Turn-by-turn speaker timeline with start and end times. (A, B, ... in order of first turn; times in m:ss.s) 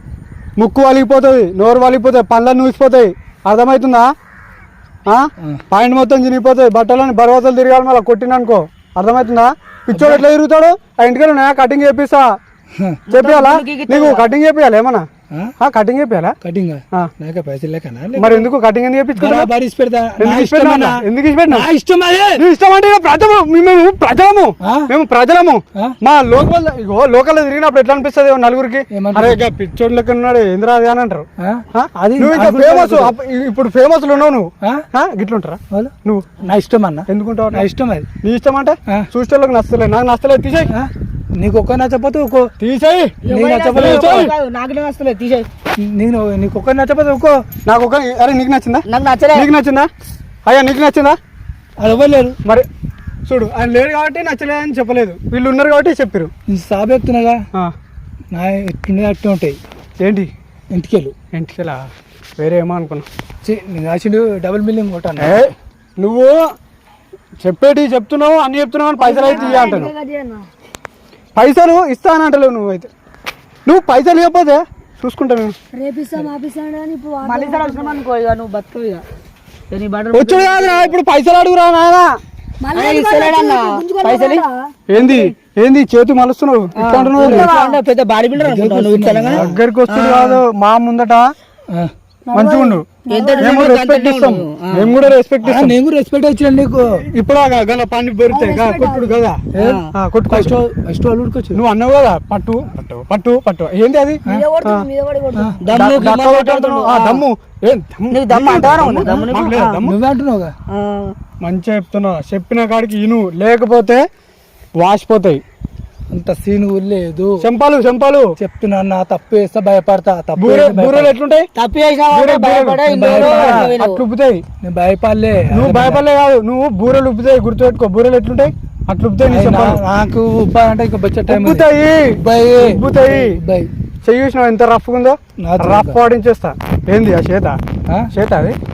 0:00.6-0:04.1 A
0:05.0-0:12.4 A
0:09.9-0:10.2 B
0:12.7-0:13.0 B
0:13.1-0:14.3 C
0:13.1-0:15.1 A
0:15.6-0:16.4 A
0:16.4-0:18.5 B
0:18.2-0:19.5 A
0:19.2-0:22.4 B
0:20.2-0:21.7 A
0:22.4-0:36.4 A
0:24.6-0:24.9 B
0:28.9-0:29.4 B
0:31.4-0:33.1 B
0:35.7-0:38.1 B
0:37.1-0:37.7 A
0:38.2-0:40.7 A
0:40.7-0:42.5 B
0:42.6-0:43.2 A
0:43.2-0:45.5 C
0:43.3-0:44.3 B
0:43.7-0:44.3 A
0:45.8-0:47.4 B
0:47.7-0:49.9 A
0:48.9-0:49.5 C
0:50.4-0:51.2 A
0:51.8-0:52.4 B
0:53.3-0:56.3 A
0:56.5-0:57.4 B
0:58.3-0:59.6 B
1:00.0-1:00.3 A
1:00.7-1:01.1 B
1:01.3-1:01.9 A
1:02.4-1:03.1 A
1:03.4-1:05.4 B
1:05.2-1:06.4 A
1:07.4-1:09.9 A
1:09.0-1:10.5 D
1:09.4-1:09.8 C
1:11.4-1:12.9 A
1:13.6-1:15.6 A
1:15.7-1:18.0 D
1:17.2-1:19.0 C
1:19.7-1:20.9 C
1:20.1-1:22.2 A
1:22.6-1:24.5 D
1:22.7-1:24.4 C
1:24.9-1:27.5 A
1:26.8-1:30.4 C
1:27.2-1:27.5 B
1:27.2-1:27.8 D
1:28.4-1:29.5 B
1:29.3-1:31.3 A
1:32.3-1:33.6 D
1:32.3-1:32.8 A
1:33.1-1:35.0 C
1:33.4-1:35.8 A
1:35.4-1:37.0 B
1:36.9-1:39.4 A
1:38.3-1:39.2 D
1:39.5-1:41.6 B
1:39.6-1:39.9 C
1:39.9-1:40.6 A
1:41.5-1:44.9 A
1:44.2-1:45.6 D
1:45.6-1:47.2 C
1:45.7-1:50.0 A
1:48.1-1:49.8 C
1:49.0-1:50.5 B
1:50.7-1:51.1 C
1:51.4-1:54.0 A
1:54.8-1:55.4 A
1:56.1-1:57.4 B
1:57.4-1:58.3 A
1:58.4-2:01.1 B
2:00.4-2:01.5 A
2:01.6-2:04.0 C
2:02.1-2:04.4 A
2:02.8-2:03.7 B
2:04.6-2:06.0 B
2:05.5-2:09.8 A
2:09.3-2:11.7 B
2:11.3-2:13.4 A
2:12.2-2:13.7 B
2:14.0-2:17.6 A
2:15.4-2:16.0 B
2:18.1-2:18.6 A